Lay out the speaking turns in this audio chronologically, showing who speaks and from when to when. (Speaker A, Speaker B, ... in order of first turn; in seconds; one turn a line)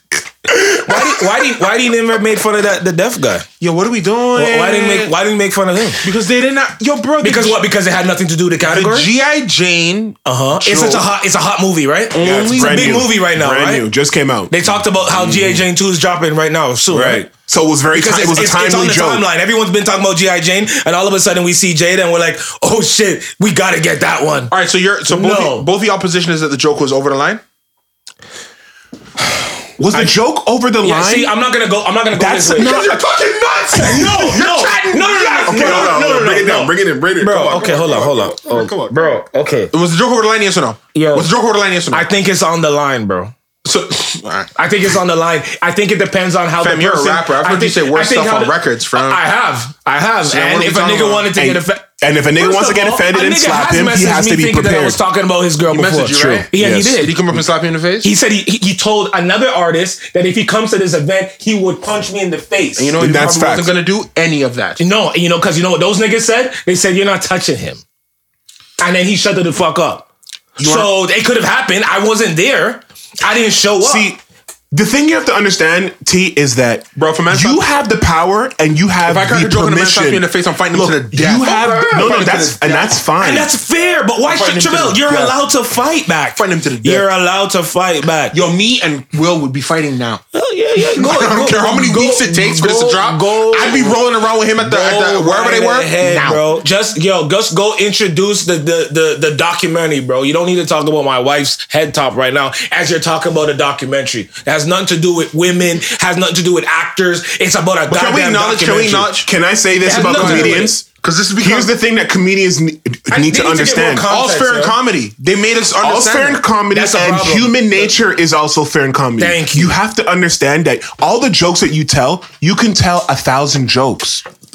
Speaker A: 0.6-3.5
Speaker B: 3.6-5.2
Speaker A: 4.4-6.0
Speaker B: 6.0-7.6
Speaker A: 7.2-9.1
Speaker B: 8.7-11.1
Speaker A: 10.2-13.9
Speaker B: 12.1-13.1
Speaker C: 12.2-15.7
Speaker A: 14.5-17.3
Speaker C: 16.9-19.3
Speaker A: 17.9-24.5
Speaker B: 24.5-27.4
Speaker A: 25.1-25.7
Speaker C: 29.8-31.3
Speaker A: 30.8-32.8
Speaker C: 32.1-33.0
Speaker B: 32.6-36.2
Speaker A: 33.8-39.7
Speaker C: 35.5-38.4
Speaker B: 37.3-39.2
Speaker B: 39.7-42.1
Speaker A: 40.9-41.3
Speaker A: 41.9-43.3
Speaker B: 43.6-44.5
Speaker A: 44.6-57.2
Speaker B: 46.6-49.2
Speaker B: 50.3-51.3
Speaker C: 51.3-55.0
Speaker B: 55.7-58.1
Speaker C: 56.2-56.9
Speaker A: 58.0-63.0
Speaker B: 62.8-64.8
Speaker C: 63.0-63.7
Speaker A: 64.8-67.8
Speaker A: 68.8-70.1
Speaker B: 70.6-70.9
Speaker A: 70.6-74.1
Speaker C: 73.8-74.2
Speaker C: 74.7-83.5
Speaker B: 77.0-77.7
Speaker B: 79.0-83.0
Speaker A: 81.4-82.1
Speaker A: 83.2-88.4
Speaker B: 84.3-85.4
Speaker B: 86.4-87.1
Speaker B: 88.3-90.2
Speaker A: 90.3-94.0
Speaker B: 90.8-96.4
Speaker A: 94.6-109.1
Speaker B: 107.9-109.3
Speaker C: 109.0-110.9
Speaker A: 109.9-110.8
Speaker B: 109.9-111.7
Speaker C: 111.4-114.1
Speaker A: 113.1-114.8
Speaker B: 114.0-116.4
Speaker C: 115.8-124.2
Speaker A: 116.7-117.9
Speaker A: 119.2-119.8